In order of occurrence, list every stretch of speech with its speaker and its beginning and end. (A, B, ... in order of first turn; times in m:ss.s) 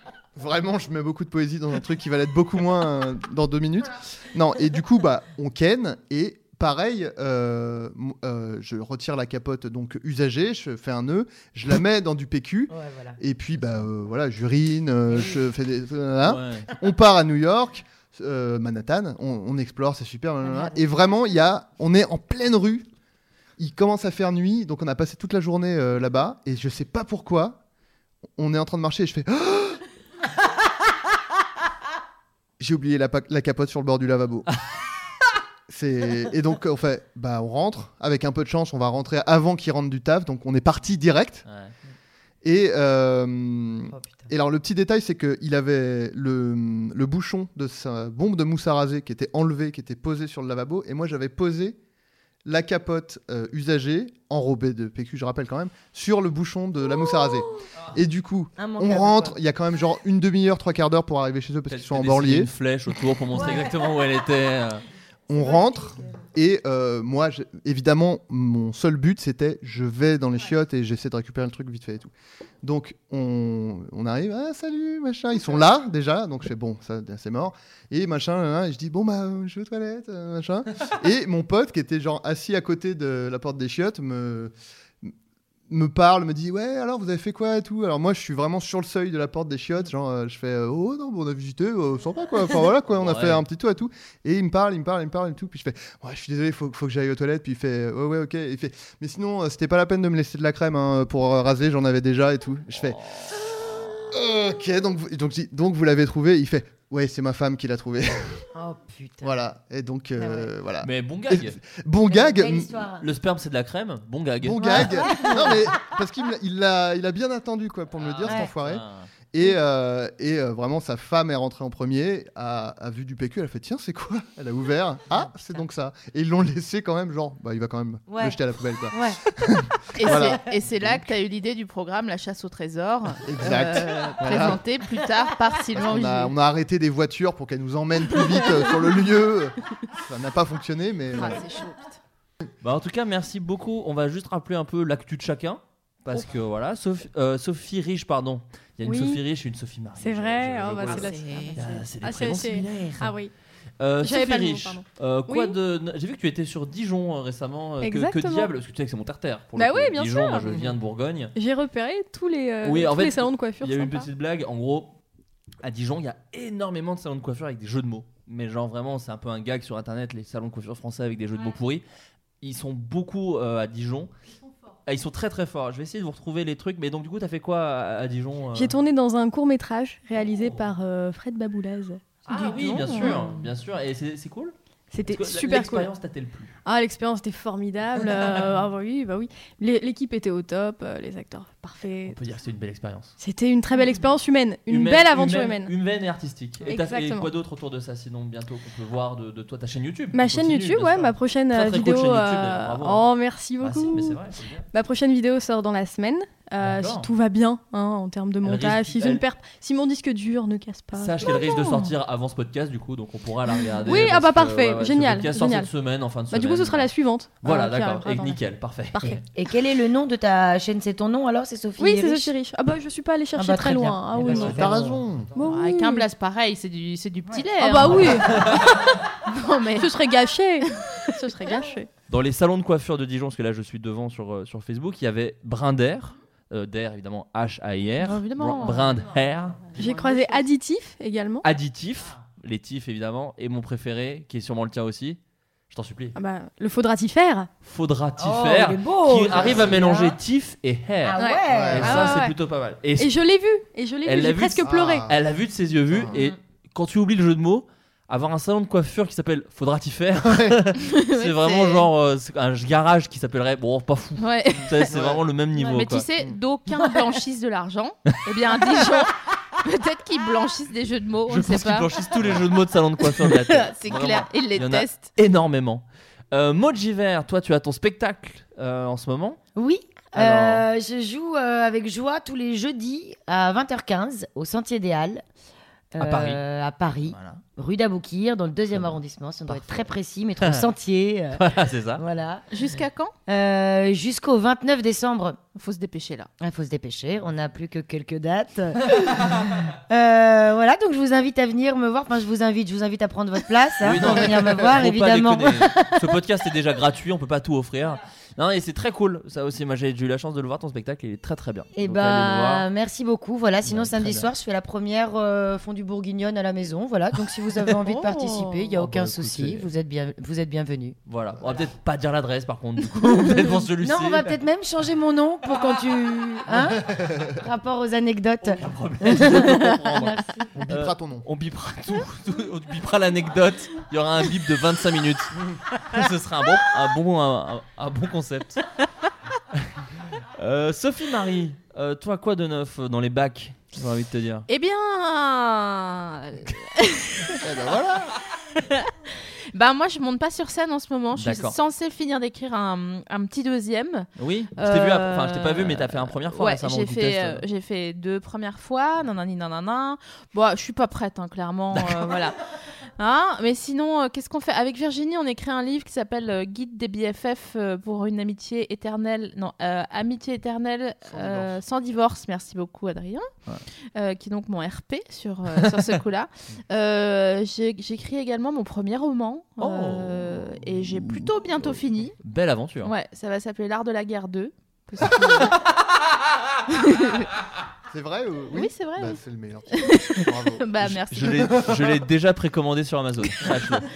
0:00.4-0:22.9 A
0:12.7-0:13.2 B
0:15.1-0:15.4 B
0:16.2-0:16.7 C
0:20.4-0:20.8 B
0:23.6-0:27.6 A
0:28.4-0:29.8 A
0:32.6-0:34.5 A
0:35.7-0:41.4 A
0:41.5-0:41.7 C
0:42.4-0:51.8 A
0:43.9-0:44.3 B
0:52.4-1:02.5 A
0:58.6-0:59.4 B
1:01.7-1:04.8 C
1:03.4-1:03.9 B
1:05.3-1:12.1 A
1:05.3-1:06.2 B
1:12.6-1:25.1 A
1:25.7-1:43.0 A
1:32.9-1:33.4 C
1:42.8-1:43.3 C
1:44.1-1:48.5 A
1:48.6-1:49.3 B
1:49.2-1:52.9 A
1:50.2-1:50.5 B
1:50.8-1:51.6 C
1:52.1-1:53.1 B
1:53.0-1:55.2 C
1:54.4-2:11.1 A
1:54.6-1:55.8 B
1:58.0-1:59.1 C
1:58.3-1:58.5 B
2:08.1-2:08.4 B
2:08.9-2:09.2 B
2:10.0-2:16.3 D
2:13.2-2:14.6 A
2:15.8-2:21.4 A
2:21.1-2:22.0 D
2:22.6-2:33.2 C
2:28.8-2:29.2 E
2:30.0-2:33.3 E
2:30.9-2:31.6 D
2:33.8-2:41.3 C
2:34.0-2:35.6 E
2:37.8-2:38.5 E
2:39.6-2:40.5 E
2:41.4-2:44.1 E
2:42.6-2:45.0 C
2:45.6-2:51.8 C
2:52.4-2:54.1 C
2:54.9-2:58.8 C
2:58.6-3:02.0 E
3:00.2-3:00.6 C
3:02.3-3:04.6 C
3:02.3-3:03.2 D
3:02.9-3:03.2 E
3:04.9-3:05.9 E
3:05.1-3:06.6 C
3:06.6-3:12.2 E
3:08.0-3:08.4 C
3:12.1-3:13.2 C
3:13.2-3:15.7 E
3:14.7-3:23.1 C
3:16.7-3:17.3 E
3:20.1-3:24.2 E
3:23.6-3:24.7 C
3:24.7-3:31.4 E
3:26.6-3:27.1 C
3:28.4-3:29.2 C
3:31.0-3:39.2 C
3:33.9-3:35.7 E
3:36.3-3:38.4 E
3:38.9-3:39.2 E
3:39.4-3:42.3 B
3:41.8-3:44.7 E
3:43.4-3:45.5 B
3:44.5-3:45.3 A
3:45.4-3:46.1 E
3:45.4-3:49.9 D
3:47.3-3:47.9 B
3:47.6-3:48.5 E
3:48.4-3:48.6 C
3:49.8-3:51.9 E
3:50.7-3:51.0 D
3:52.1-3:59.8 C
3:58.0-3:59.0 D
3:59.8-4:01.4 E
3:59.8-4:00.4 D
4:01.4-4:05.2 C
4:05.7-4:06.2 C
4:06.2-4:07.5 E
4:07.6-4:13.1 C
4:08.2-4:10.2 B
4:09.3-4:09.6 A
4:11.0-4:12.1 B
4:11.2-4:12.4 E
4:11.5-4:12.2 A
4:13.0-4:15.1 E
4:14.0-4:26.1 C
4:14.6-4:15.2 A
4:15.9-4:16.1 A
4:20.2-4:20.7 A
4:20.8-4:21.9 D
4:24.2-4:25.0 D
4:24.9-4:25.2 A
4:25.5-4:32.2 D
4:31.3-4:39.4 C
4:33.2-4:35.1 D
4:39.6-4:45.2 B
4:40.1-4:40.6 C
4:45.9-4:52.5 B
4:46.0-4:46.4 C
4:47.1-4:47.4 C
4:49.5-4:49.9 C
4:50.4-4:50.7 C
4:51.4-4:52.0 C
4:52.5-4:53.1 D
4:53.3-4:55.4 B
4:55.6-4:56.3 D
4:56.4-5:06.0 B
5:03.8-5:12.7 C
5:11.8-5:21.0 B
5:13.6-5:14.3 C
5:17.7-5:19.7 C
5:21.1-5:24.3 C
5:21.4-5:21.7 A
5:23.8-5:30.5 B
5:26.8-5:27.4 A
5:28.4-5:30.1 C
5:29.6-5:31.3 A
5:30.7-5:38.7 C
5:40.4-5:44.5 C
5:44.5-5:47.5 D
5:47.4-5:48.2 A
5:48.6-5:54.1 D
5:51.2-5:51.6 C
5:54.2-5:57.4 C
5:54.6-6:02.4 D
6:03.0-6:13.3 D
6:11.1-6:11.6 A
6:14.0-6:22.2 D
6:15.6-6:15.9 C
6:19.6-6:20.5 C
6:21.1-6:22.9 C
6:22.8-6:25.6 D
6:26.7-6:27.3 D
6:27.9-6:32.0 A
6:28.5-6:29.2 D
6:29.7-6:31.5 D
6:31.1-6:33.8 C